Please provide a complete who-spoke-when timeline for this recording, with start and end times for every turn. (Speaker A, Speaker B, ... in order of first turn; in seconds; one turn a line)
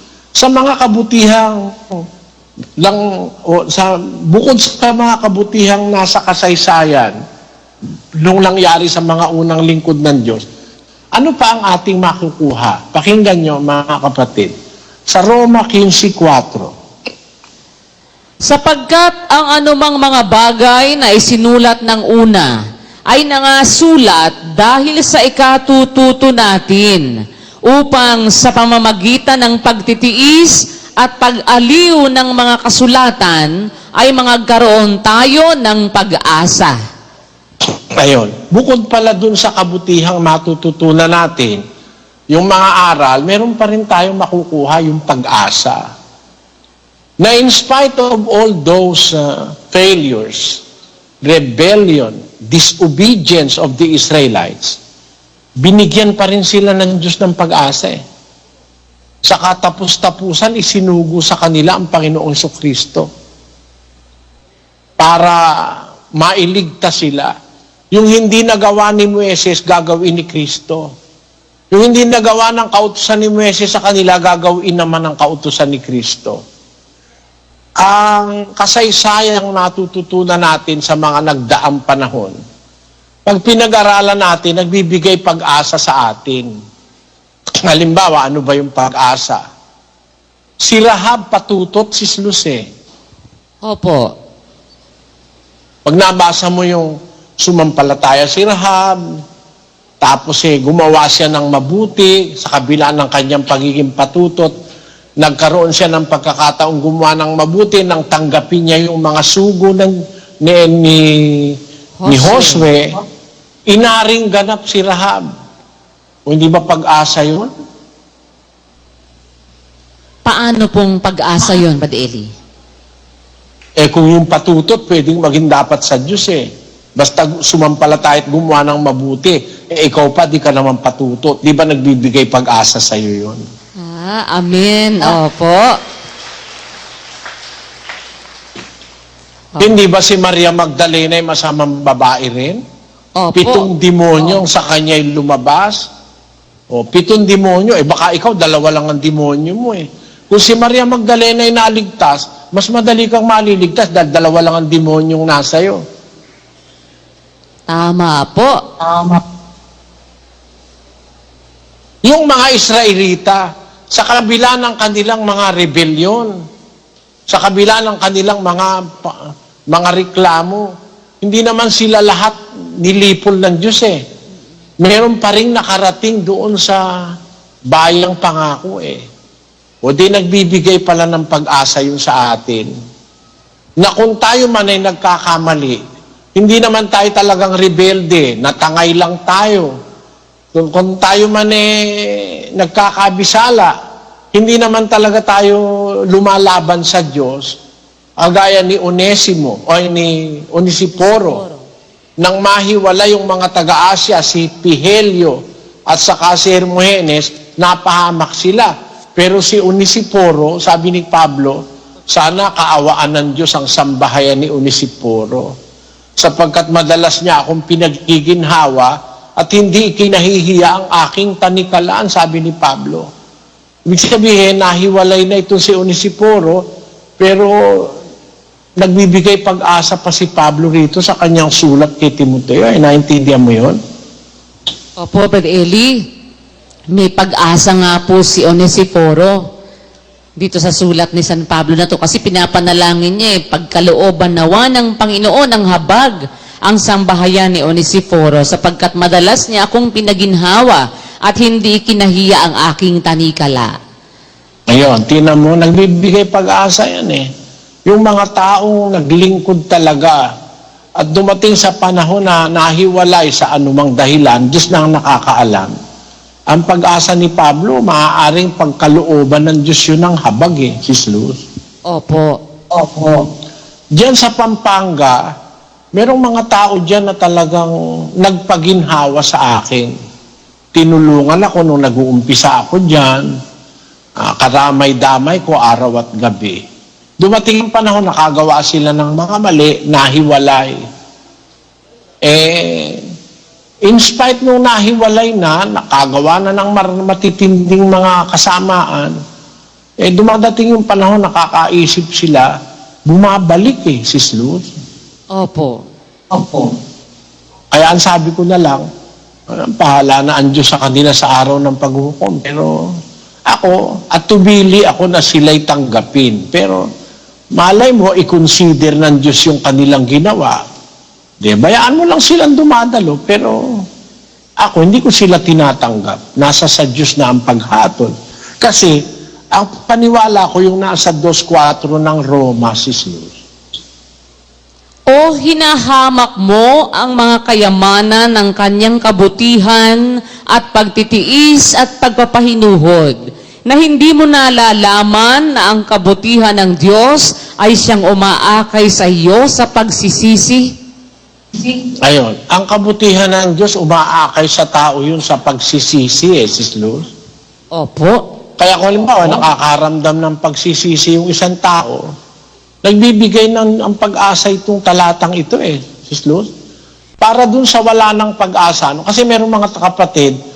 Speaker A: 0.4-2.0
Speaker A: 2.8-7.1
Speaker A: 8.2-10.4
Speaker A: 11.2-14.5
Speaker A: 15.1-16.7
Speaker B: 18.4-22.6
Speaker B: 23.1-27.1
Speaker B: 27.7-36.7
Speaker A: 38.0-41.6
Speaker A: 42.3-45.8
Speaker A: 47.2-50.6
Speaker A: 51.2-54.8
Speaker A: 55.6-58.0
Speaker A: 59.3-63.1
Speaker A: 65.0-67.3
Speaker A: 67.9-70.9
Speaker A: 71.7-76.4
Speaker A: 77.8-82.3
Speaker A: 83.3-86.5
Speaker A: 87.6-89.4
Speaker A: 90.6-92.6
Speaker B: 93.6-94.1
Speaker A: 95.9-99.0
Speaker A: 100.0-104.5
Speaker A: 105.2-112.9
Speaker B: 112.0-112.7
Speaker A: 113.7-115.2
Speaker A: 116.3-117.5
Speaker B: 120.3-122.3
Speaker A: 123.8-126.5
Speaker A: 127.0-133.4
Speaker B: 133.8-135.7
Speaker A: 139.6-142.6
Speaker B: 143.2-143.7
Speaker A: 143.3-145.9
Speaker A: 146.7-155.8
Speaker B: 157.7-158.6
Speaker A: 158.8-159.2
Speaker A: 162.1-163.4
Speaker A: 163.9-166.3
Speaker A: 167.3-169.2
Speaker A: 169.7-170.6
Speaker A: 171.2-174.0
Speaker A: 174.8-176.8
Speaker A: 177.7-179.0
Speaker A: 179.8-182.7
Speaker A: 183.8-185.8
Speaker A: 186.3-189.7
Speaker A: 190.5-193.7
Speaker A: 194.3-197.5
Speaker A: 198.2-201.4
Speaker B: 201.0-201.6
Speaker A: 202.2-205.4
Speaker A: 205.9-211.6
Speaker A: 212.1-215.5
Speaker A: 216.2-223.1
Speaker A: 223.9-226.6
Speaker A: 227.2-227.9
Speaker A: 228.8-233.8
Speaker B: 235.0-236.0
Speaker B: 236.9-239.4
Speaker B: 240.4-253.7
Speaker A: 254.7-257.3
Speaker A: 257.9-260.2
Speaker A: 261.0-265.7
Speaker A: 266.5-271.4
Speaker B: 271.9-272.4
Speaker A: 272.7-273.3
Speaker A: 274.0-275.2
Speaker A: 276.0-279.9
Speaker A: 280.8-283.3
Speaker A: 284.2-286.6
Speaker A: 287.2-290.8
Speaker A: 292.2-293.0
Speaker A: 293.9-299.2
Speaker A: 300.0-302.5
Speaker A: 303.1-304.7
Speaker B: 305.3-305.8
Speaker A: 306.3-306.7
Speaker A: 307.7-308.9
Speaker A: 309.6-312.7
Speaker A: 313.5-316.9
Speaker A: 317.6-320.6
Speaker A: 321.4-323.6
Speaker A: 324.6-329.0
Speaker A: 329.5-333.4
Speaker B: 335.1-350.7
Speaker A: 352.0-357.1
Speaker B: 357.8-358.2
Speaker A: 358.6-362.0
Speaker A: 362.9-366.5
Speaker A: 367.2-370.4